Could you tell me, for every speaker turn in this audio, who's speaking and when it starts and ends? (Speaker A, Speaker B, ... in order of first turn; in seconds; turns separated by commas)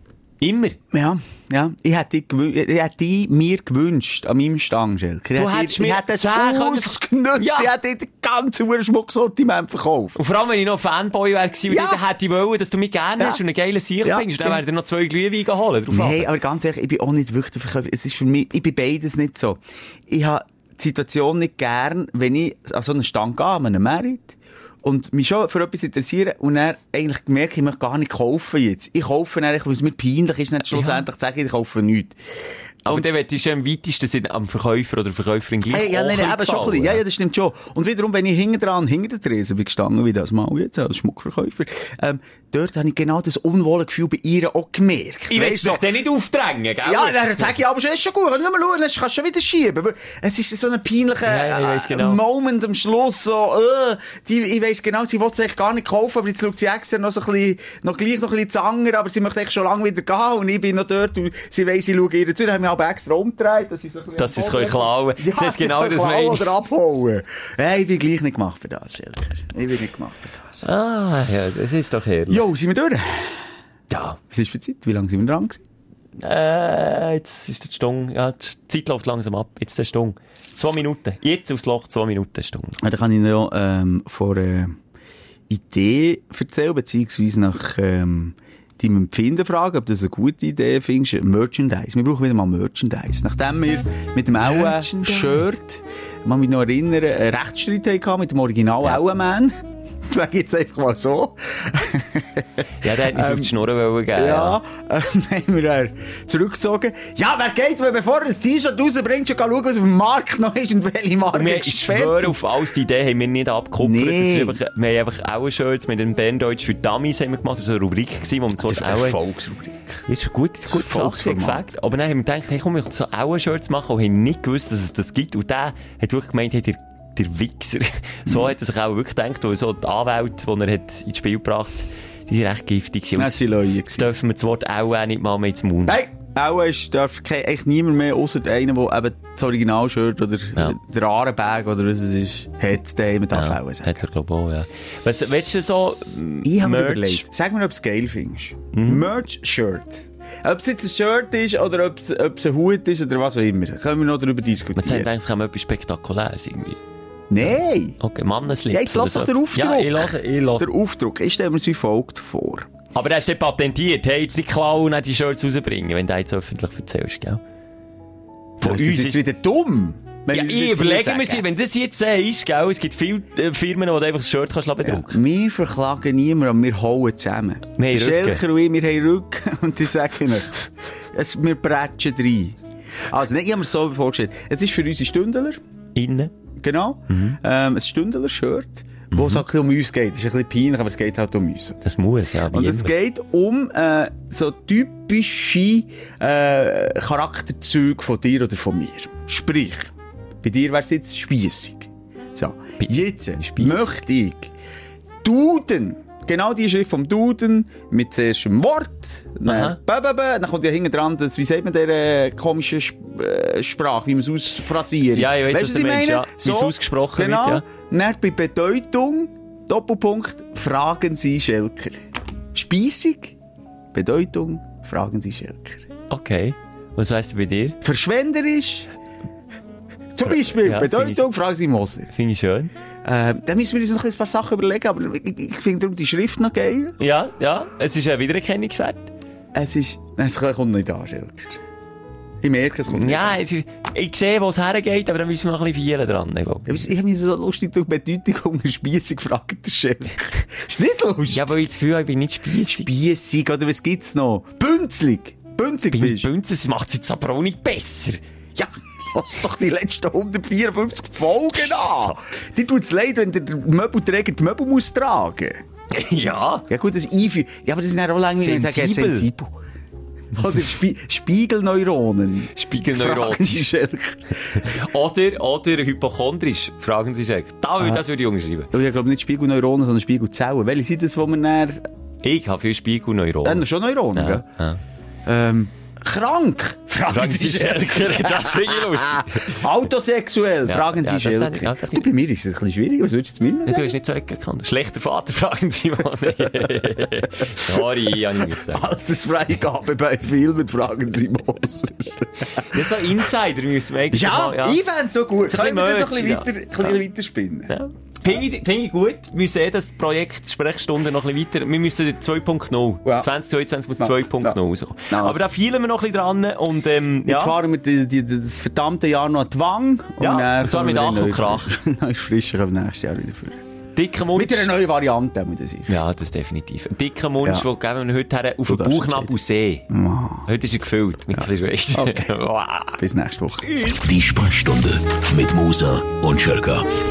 Speaker A: 0.4-0.8, Speaker B: 0.9-10.2, Speaker A: 5.4-7.7, Speaker A: 10.2-16.3, Speaker B: 11.7-12.0, Speaker B: 14.0-14.6, Speaker B: 15.9-32.2, Speaker A: 30.7-31.0, Speaker A: 32.9-37.0, Speaker B: 35.7-45.9, Speaker A: 45.3-47.6, Speaker B: 46.8-70.7, Speaker A: 51.2-52.2, Speaker A: 64.2-66.5, Speaker A: 70.6-72.4, Speaker B: 72.3-73.4, Speaker A: 73.9-74.2, Speaker B: 74.3-75.6, Speaker A: 76.2-82.8, Speaker B: 82.8-84.8, Speaker B: 85.5-103.6, Speaker A: 94.4-95.4, Speaker A: 102.8-104.6, Speaker B: 104.1-112.4, Speaker A: 111.3-119.2, Speaker B: 113.8-114.6, Speaker B: 118.6-120.0, Speaker A: 120.1-136.0, Speaker B: 120.6-121.7, Speaker B: 133.2-134.1, Speaker B: 135.9-144.0, Speaker A: 143.3-147.2, Speaker B: 146.4-155.1, Speaker A: 148.7-149.1, Speaker A: 154.8-156.8, Speaker B: 157.3-158.0, Speaker A: 158.0-160.7, Speaker B: 158.7-162.7, Speaker A: 162.9-167.4, Speaker A: 168.6-169.2, Speaker B: 168.6-171.4, Speaker A: 170.3-175.2, Speaker B: 174.8-182.6, Speaker A: 177.8-178.4, Speaker B: 183.1-185.6, Speaker A: 185.9-186.3, Speaker B: 186.6-191.8, Speaker A: 187.1-187.4, Speaker A: 189.1-189.4, Speaker A: 191.8-192.9, Speaker B: 192.5-204.5, Speaker A: 202.8-204.0, Speaker B: 205.2-222.0, Speaker A: 209.5-209.8, Speaker A: 215.1-217.6, Speaker B: 222.5-223.4, Speaker B: 223.9-225.9, Speaker A: 226.1-227.8, Speaker B: 227.8-228.9, Speaker B: 230.1-232.1, Speaker A: 230.2-231.2, Speaker A: 232.1-232.7, Speaker B: 233.0-237.0, Speaker A: 237.0-239.1, Speaker B: 239.5-241.6, Speaker B: 242.4-243.4, Speaker A: 242.9-246.7, Speaker B: 246.7-251.6, Speaker A: 251.3-252.9, Speaker B: 252.7-256.3, Speaker A: 255.9-258.2, Speaker B: 258.6-265.6, Speaker A: 261.6-262.2, Speaker A: 265.9-266.6, Speaker B: 266.7-269.5, Speaker A: 268.4-269.3, Speaker B: 270.4-274.8, Speaker A: 272.5-273.7, Speaker A: 274.5-278.7, Speaker B: 278.7-281.9, Speaker A: 282.2-284.8, Speaker B: 283.4-284.5, Speaker B: 285.2-293.9, Speaker A: 287.1-289.6, Speaker A: 290.7-292.1, Speaker A: 293.7-298.9, Speaker B: 297.4-303.1, Speaker A: 302.4-304.8, Speaker B: 304.1-307.7, Speaker A: 305.4-307.0, Speaker A: 307.7-317.6, Speaker B: 313.0-313.3, Speaker B: 314.0-315.4, Speaker B: 317.3-323.6, Speaker A: 320.2-321.7, Speaker A: 324.0-324.7, Speaker B: 324.4-325.9, Speaker A: 325.9-329.9, Speaker B: 328.7-329.4, Speaker B: 329.9-330.5, Speaker A: 330.5-333.0, Speaker B: 331.4-332.3, Speaker B: 333.0-333.7, Speaker A: 333.7-334.0, Speaker C: 334.0-336.9